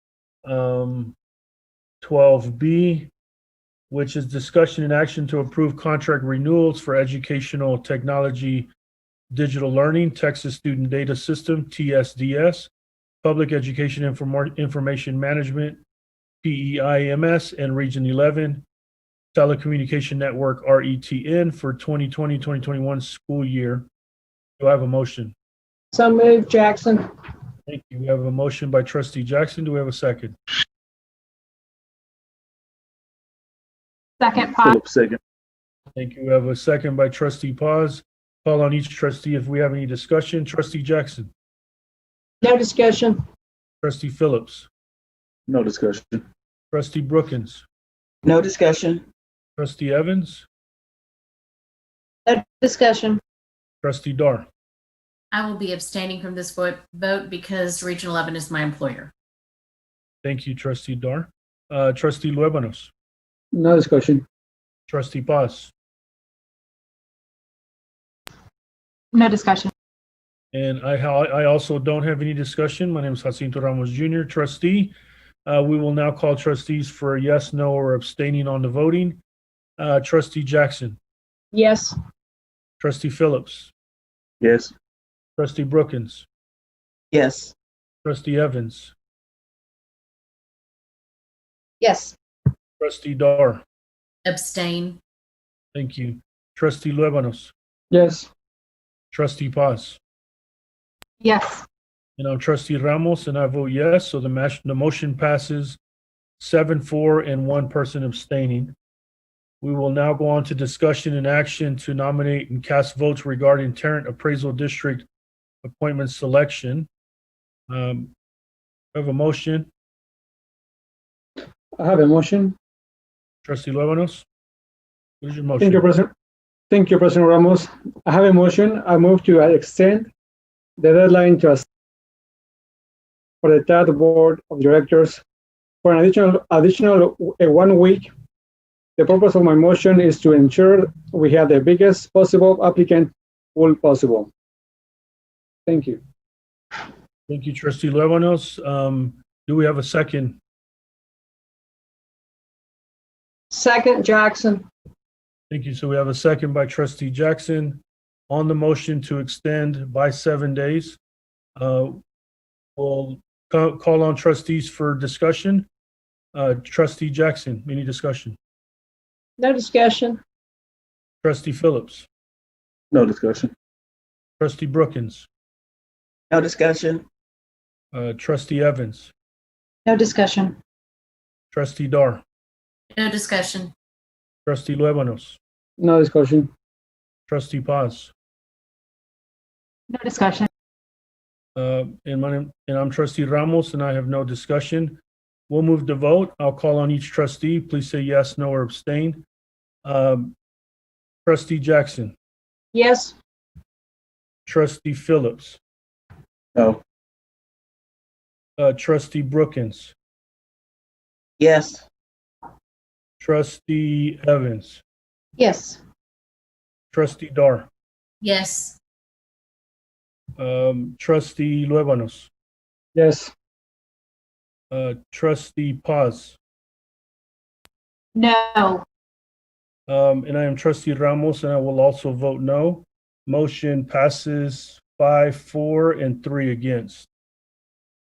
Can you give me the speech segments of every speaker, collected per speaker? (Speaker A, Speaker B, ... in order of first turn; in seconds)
Speaker A: 0.5-1.2, 2.0-3.1, 3.9-8.7, 9.3-12.7, 13.2-15.8, 16.4-18.6, 19.3-23.8, 24.6-25.3, 27.7-30.4, 36.0-41.3, 43.8-44.7, 46.7-47.6, 49.6-50.5, 53.8-54.5, 60.2-62.9, 64.9-65.7, 70.5-74.9, 75.5-79.2, 79.8-81.0, 82.8-83.7, 85.4-86.3, 88.0-88.9, 92.8-93.6, 95.7-97.5, 99.1-100.0, 102.2-105.8, 106.4-108.8, 109.6-115.1, 115.6-116.9, 117.7-118.1, 118.9-119.7, 123.5-124.2, 125.2-125.8, 147.3-150.4, 155.5-161.0, 161.6-162.0, 162.8-165.7, 166.3-168.4, 171.2-172.1, 174.4-175.3, 177.9-179.1, 181.5-182.2, 184.4-185.4, 187.3-188.1, 191.6-195.0, 195.5-199.2, 199.8-200.3, 201.2-202.1, 204.4-205.6, 208.6-209.9, 213.2-214.8, 216.9-217.7, 220.4-222.3, 224.7-226.4, 229.9-237.1
Speaker B: 25.9-27.0, 34.2-34.8, 42.4-43.2, 52.3-53.2, 69.1-69.7, 81.5-82.0, 91.8-92.2, 101.2-101.6, 153.5-154.7, 169.4-170.2, 179.8-180.6, 189.9-190.5, 202.7-203.1, 215.4-215.8, 228.1-228.8
Speaker C: 34.6-35.2, 45.5-46.2, 84.4-84.7, 172.9-173.5
Speaker D: 48.2-49.0, 87.1-87.5, 176.3-177.0, 211.4-211.8
Speaker E: 55.3-59.1, 94.2-95.0, 182.9-183.7, 218.2-218.8
Speaker F: 63.5-64.2, 97.9-98.3, 121.8-122.5, 125.6-126.1, 126.7-130.1, 130.8-131.6, 133.4-135.2, 135.8-138.1, 139.0-144.3, 145.7-146.0, 185.8-186.5, 222.9-223.3